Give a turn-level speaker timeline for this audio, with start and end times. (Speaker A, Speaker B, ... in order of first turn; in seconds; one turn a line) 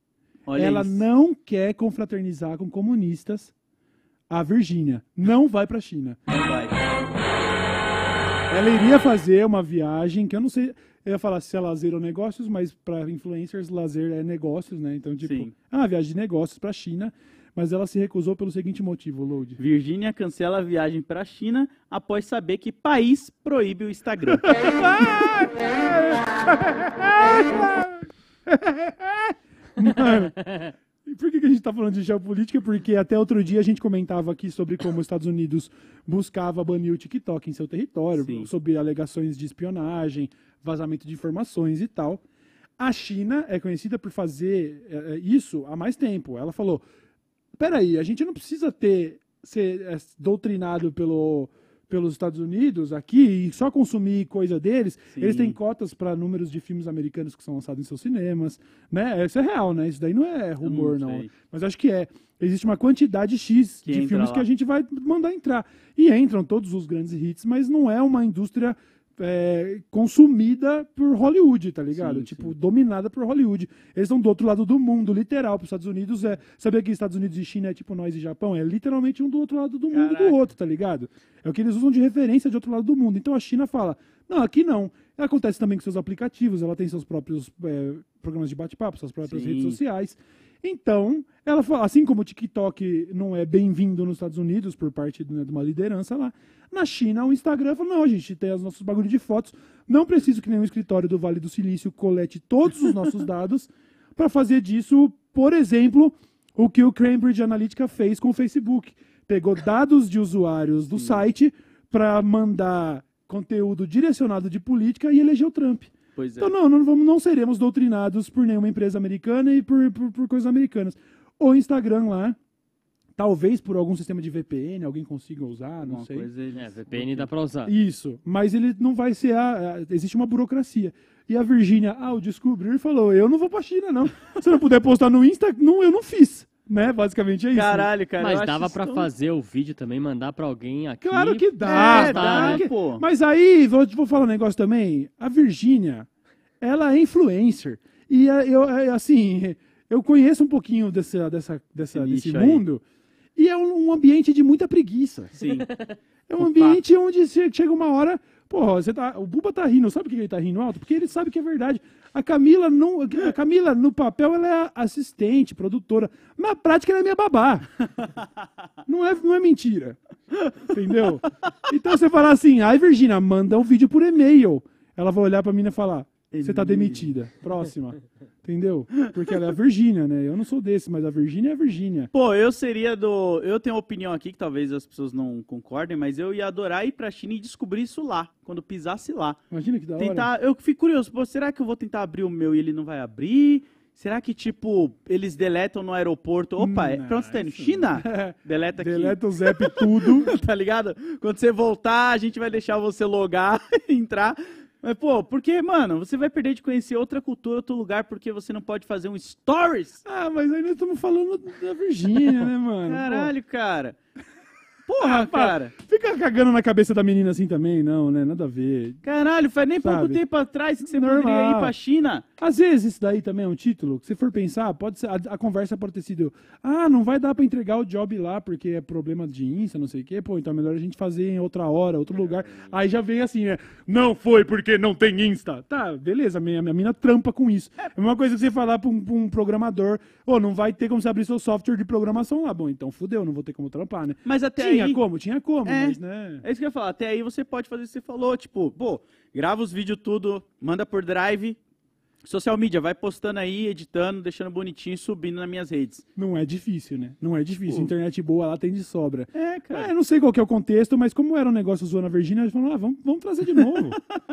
Speaker A: 0.5-1.1
Speaker B: 0.6-3.5
Speaker B: 4.3-6.2
Speaker A: 6.3-7.1
Speaker B: 8.5-19.6
Speaker A: 15.2-15.5
Speaker A: 19.6-24.6
Speaker B: 24.5-42.2
Speaker A: 38.2-38.5
Speaker B: 42.8-46.9
Speaker B: 47.6-122.4
Speaker A: 55.1-55.6
Speaker A: 60.6-61.3
Speaker A: 63.9-64.5
Speaker A: 72.0-72.5
Speaker A: 79.9-80.4
Speaker A: 89.2-89.8
Speaker A: 111.0-111.2
Speaker A: 116.2-116.5
Speaker B: 123.2-126.3
Speaker A: 125.8-127.3
Speaker C: 126.6-127.7
Speaker B: 127.7-137.9
Speaker A: 137.5-139.1
Speaker C: 138.2-142.7
Speaker B: 141.0-146.1
Speaker A: 141.6-143.1
Speaker B: 146.6-152.8
Speaker A: 151.9-152.6
Speaker B: 153.4-155.3
Speaker A: 155.3-155.7
Speaker B: 156.3-167.9
Speaker A: 156.4-156.8
Speaker B: 168.9-170.0
Speaker B: 170.7-182.1
Speaker A: 176.3-177.1
Speaker A: 182.1-189.4
Speaker B: 189.5-190.3
Speaker A: 190.0-210.0
Speaker B: 196.6-200.3
Speaker B: 210.1-213.3
Speaker A: 212.9-214.0
Speaker A: 214.9-215.7
Speaker B: 215.0-219.0
Speaker A: 219.0-222.2
Speaker B: 219.8-220.2
Speaker B: 220.8-221.7
Speaker B: 222.4-246.4
Speaker A: 244.2-245.0
Speaker A: 245.7-251.6
Speaker A: 252.2-256.1
Speaker B: 256.2-264.0
Speaker A: 259.3-259.9
Speaker A: 263.6-264.2